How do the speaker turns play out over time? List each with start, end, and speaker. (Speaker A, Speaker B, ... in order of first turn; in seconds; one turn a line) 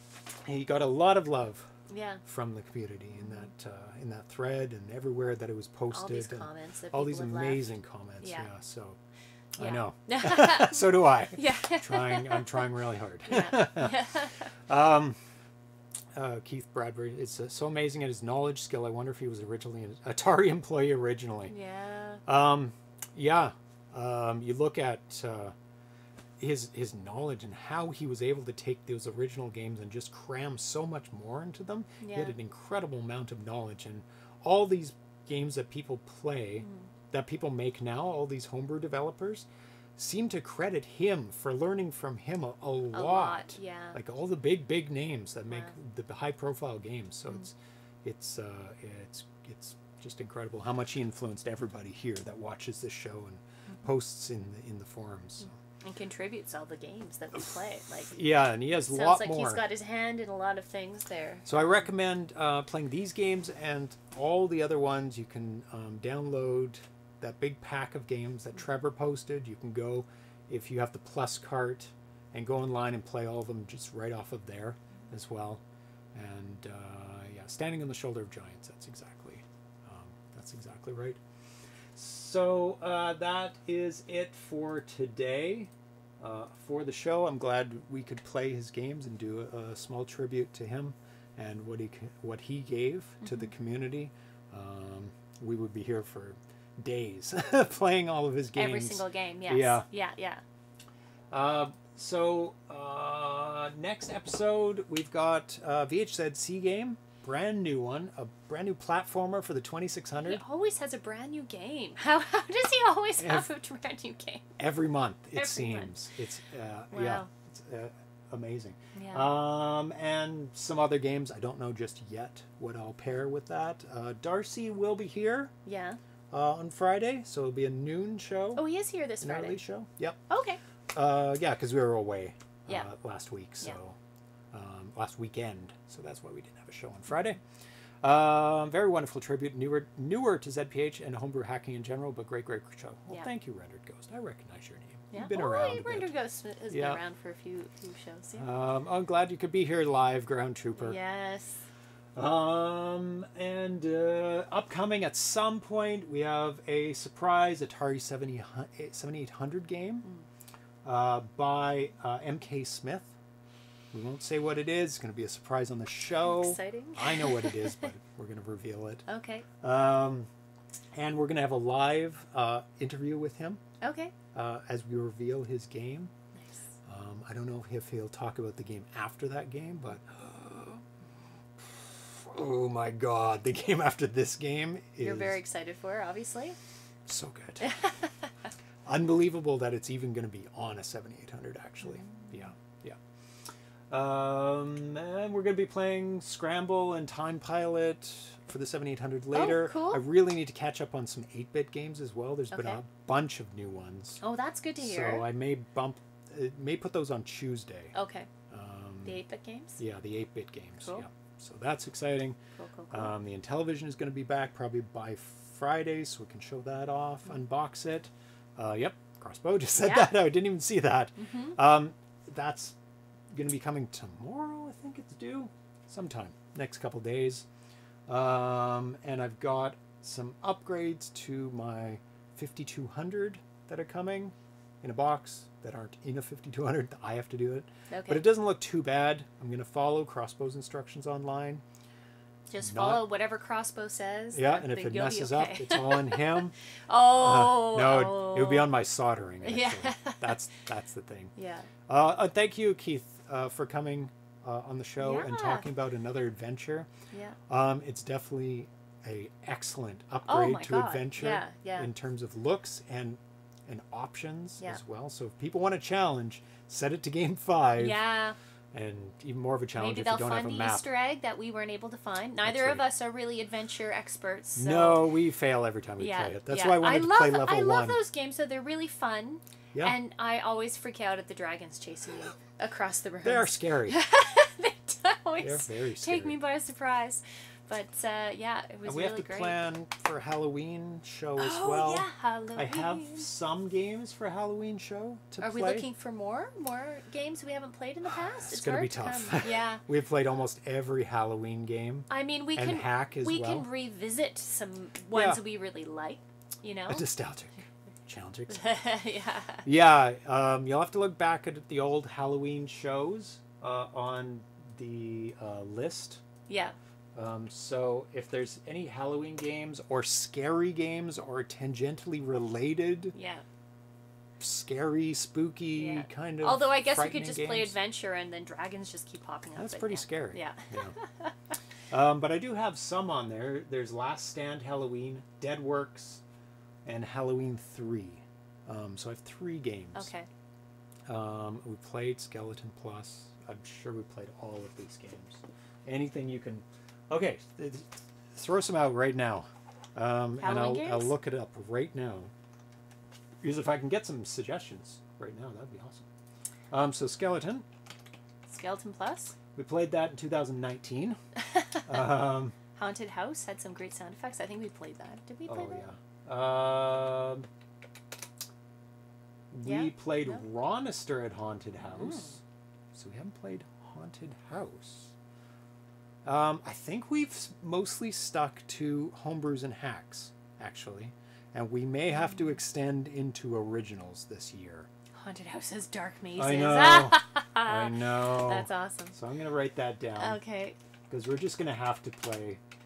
Speaker A: 0.4-1.7
Speaker B: 1.9-2.2
Speaker A: 2.2-9.0
Speaker B: 5.9-7.7
Speaker B: 8.2-8.5
Speaker A: 9.6-15.2
Speaker B: 9.6-12.6
Speaker B: 13.3-14.5
Speaker A: 16.1-21.5
Speaker B: 21.5-22.2
Speaker A: 22.3-25.6
Speaker A: 26.4-55.6
Speaker B: 32.0-32.4
Speaker B: 36.6-36.9
Speaker B: 42.9-44.0
Speaker B: 55.8-58.2
Speaker A: 58.0-59.6
Speaker B: 58.7-61.9
Speaker A: 61.5-75.6
Speaker A: 76.2-81.2
Speaker A: 81.9-99.9
Speaker B: 93.2-93.5
Speaker B: 98.6-100.4
Speaker A: 101.3-110.4
Speaker B: 110.2-114.5
Speaker A: 113.2-113.5
Speaker A: 114.6-125.5
Speaker B: 115.3-115.9
Speaker B: 116.9-117.3
Speaker B: 119.0-119.3
Speaker B: 125.7-126.0
Speaker A: 126.3-128.7
Speaker B: 128.6-129.6
Speaker A: 129.2-130.2
Speaker B: 130.3-130.6
Speaker A: 130.9-134.0
Speaker A: 134.5-137.4
Speaker A: 138.0-146.1
Speaker B: 145.1-148.5
Speaker A: 146.7-147.0
Speaker A: 148.4-151.0
Speaker B: 150.8-151.7
Speaker A: 152.2-160.1
Speaker A: 160.8-163.1
Speaker A: 163.9-169.1
Speaker B: 166.2-167.9
Speaker B: 169.1-169.5
Speaker A: 169.6-170.3
Speaker A: 170.9-173.6
Speaker B: 173.8-174.1
Speaker A: 174.3-176.1
Speaker B: 176.3-176.8
Speaker A: 176.8-180.8
Speaker A: 181.6-185.4
Speaker B: 185.0-186.6
Speaker A: 187.1-187.7
Speaker B: 187.6-188.5
Speaker A: 188.9-193.0
Speaker B: 192.0-192.5
Speaker A: 193.9-204.2
Speaker B: 199.3-200.0
Speaker B: 202.5-202.8
Speaker B: 204.2-205.3
Speaker A: 204.8-207.9
Speaker B: 207.9-208.3
Speaker A: 208.5-209.2
Speaker B: 209.1-209.8
Speaker A: 209.8-212.4
Speaker B: 212.6-213.2
Speaker A: 212.9-222.8
Speaker B: 219.8-220.1
Speaker B: 221.2-221.6
Speaker A: 223.3-227.5
Speaker A: 228.1-241.6
Speaker B: 237.9-238.2
Speaker B: 242.5-248.7
Speaker A: 242.6-243.1
Speaker A: 244.3-246.6
Speaker A: 247.1-251.3
Speaker B: 249.4-250.3
Speaker B: 251.4-251.7
Speaker A: 251.9-256.9
Speaker B: 255.0-255.7
Speaker B: 257.1-257.4
Speaker A: 257.5-268.0
Speaker B: 260.3-261.9
Speaker B: 267.8-268.4
Speaker A: 268.7-270.9
Speaker B: 269.8-275.1
Speaker A: 272.4-272.9
Speaker A: 274.6-278.0
Speaker B: 276.0-289.6
Speaker A: 283.2-284.0
Speaker A: 285.4-286.4
Speaker A: 288.9-295.9
Speaker B: 291.4-293.3
Speaker B: 295.4-299.8
Speaker A: 298.1-303.7
Speaker B: 302.1-307.1
Speaker A: 305.1-305.4
Speaker A: 306.9-308.6
Speaker B: 308.5-309.7
Speaker A: 309.6-316.2
Speaker B: 316.5-316.8
Speaker A: 317.1-323.1
Speaker B: 323.1-323.4
Speaker A: 324.4-327.8
Speaker B: 325.8-331.6
Speaker A: 329.6-331.0
Speaker A: 331.9-336.2
Speaker A: 336.9-340.1
Speaker B: 339.9-340.3
Speaker A: 341.1-352.3
Speaker B: 350.4-351.1
Speaker A: 353.4-356.1
Speaker A: 356.7-357.7
Speaker B: 358.5-359.4
Speaker A: 359.6-361.2
Speaker B: 361.4-362.0
Speaker A: 361.9-362.6
Speaker B: 362.7-365.8
Speaker A: 365.5-367.5
Speaker A: 369.5-372.4
Speaker B: 369.6-370.4
Speaker B: 371.8-372.4
Speaker A: 372.9-375.1
Speaker A: 376.2-384.9
Speaker B: 385.2-389.2
Speaker A: 386.4-390.4
Speaker B: 390.2-390.8
Speaker A: 391.1-392.6